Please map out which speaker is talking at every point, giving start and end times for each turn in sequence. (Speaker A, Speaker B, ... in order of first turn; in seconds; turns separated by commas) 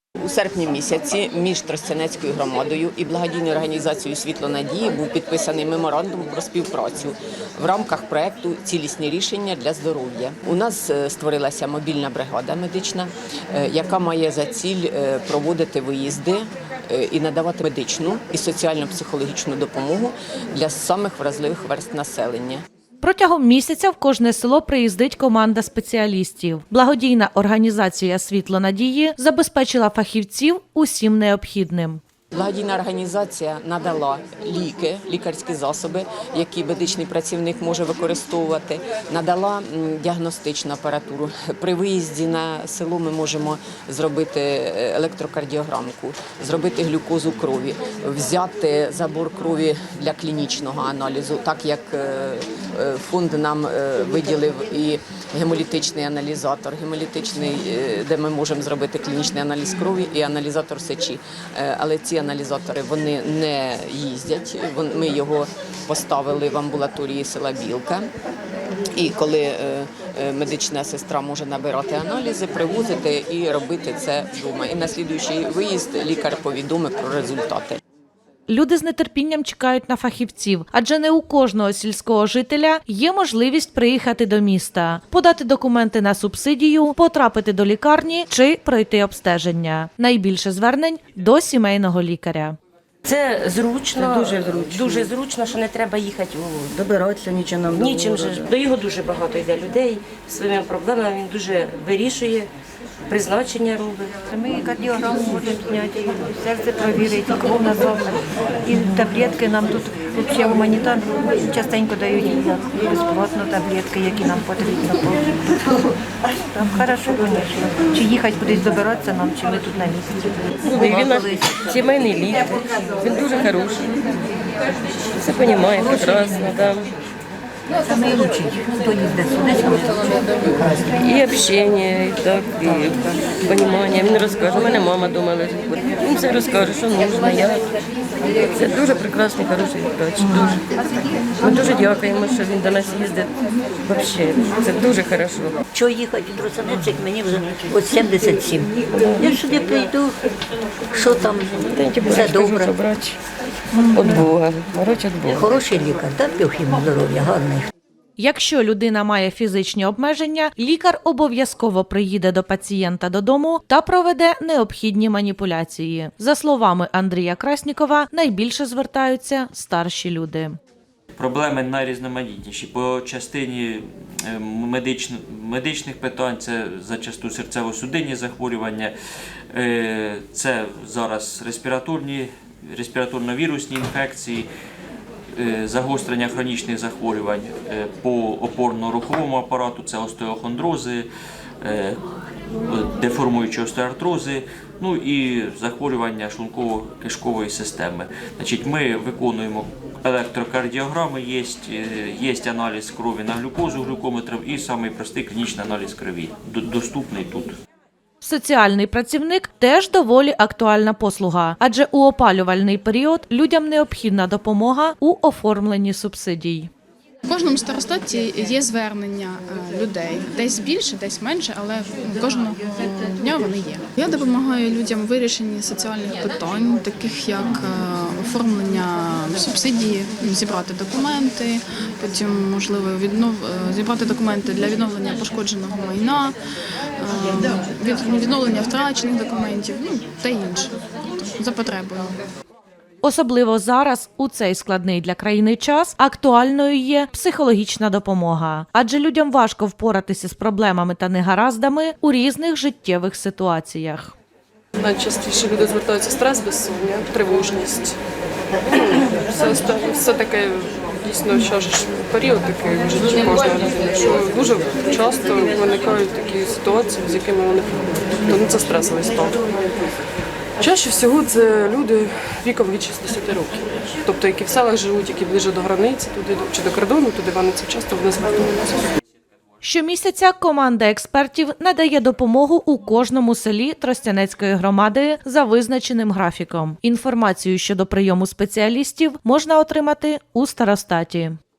Speaker A: 0.2-22.6, Speaker B: 23.0-32.0, Speaker A: 32.3-68.1, Speaker A: 69.0-77.8, Speaker B: 78.5-92.6, Speaker C: 93.0-96.8, Speaker D: 94.0-95.1, Speaker D: 96.7-98.5, Speaker C: 97.7-102.5, Speaker C: 103.1-104.2, Speaker E: 104.2-115.3, Speaker E: 116.3-120.4, Speaker C: 120.7-123.9, Speaker F: 120.8-121.5, Speaker C: 125.2-126.9, Speaker F: 127.8-130.9, Speaker E: 128.3-129.4, Speaker C: 130.6-137.7, Speaker C: 138.5-140.6, Speaker C: 141.4-143.3, Speaker C: 143.8-145.6, Speaker F: 145.7-150.2, Speaker C: 148.9-149.5, Speaker F: 150.9-151.5, Speaker C: 151.1-153.2, Speaker F: 152.0-152.7, Speaker F: 153.7-154.2, Speaker C: 153.8-155.6, Speaker F: 155.3-157.7, Speaker B: 158.2-170.6, Speaker G: 171.2-178.9, Speaker G: 179.5-184.5, Speaker G: 185.4-191.1, Speaker G: 191.6-192.0, Speaker G: 192.7-207.5, Speaker B: 208.2-216.7, Speaker H: 217.2-236.3, Speaker H: 237.0-242.2, Speaker B: 243.0-254.1, Speaker I: 254.8-258.0, Speaker I: 258.7-270.0, Speaker I: 270.6-278.9, Speaker B: 279.6-291.4